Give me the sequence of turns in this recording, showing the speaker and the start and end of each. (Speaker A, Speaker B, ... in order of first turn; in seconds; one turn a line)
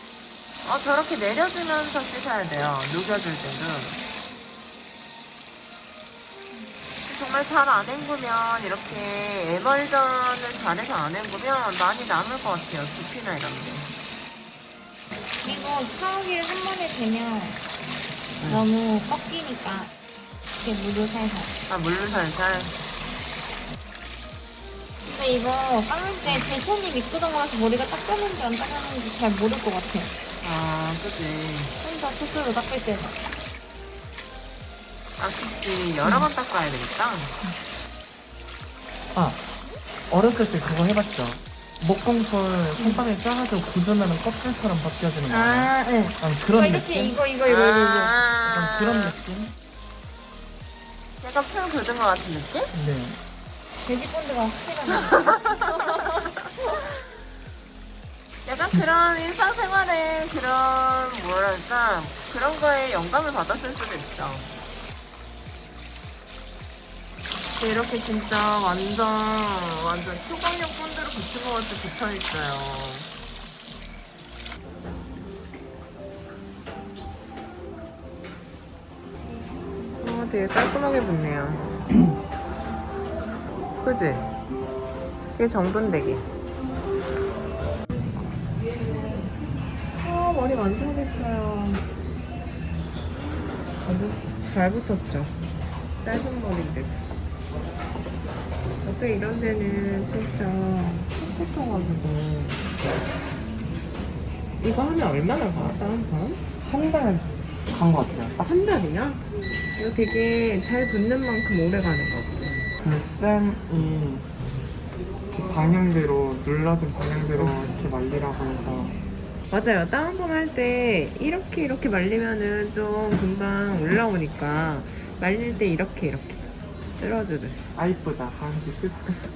Speaker A: 0.6-4.0
Speaker A: 7.0-13.9
Speaker B: 15.4-17.6
Speaker A: 18.4-18.7
Speaker B: 18.4-19.9
Speaker B: 20.6-21.5
Speaker A: 21.7-22.8
Speaker B: 25.1-30.1
Speaker A: 26.2-26.6
Speaker A: 30.4-31.8
Speaker B: 31.8-33.2
Speaker A: 35.2-37.4
Speaker B: 36.0-36.3
Speaker C: 39.1-39.4
Speaker C: 40.1-47.2
Speaker B: 42.8-43.1
Speaker B: 45.3-48.2
Speaker A: 47.4-49.2
Speaker C: 48.4-49.5
Speaker A: 51.2-52.7
Speaker C: 52.7-53.2
Speaker B: 53.9-56.0
Speaker A: 54.9-56.3
Speaker A: 58.4-64.5
Speaker A: 67.6-73.1
Speaker A: 80.0-81.8
Speaker A: 83.8-84.3
Speaker A: 85.3-86.3
Speaker A: 89.9-91.9
Speaker A: 93.8-95.4
Speaker A: 96.0-97.0
Speaker A: 98.8-102.6
Speaker A: 104.6-106.4
Speaker C: 106.6-108.5
Speaker A: 108.4-109.2
Speaker A: 109.8-112.7
Speaker C: 112.8-114.3
Speaker C: 115.3-119.0
Speaker A: 119.5-127.6
Speaker C: 127.8-129.2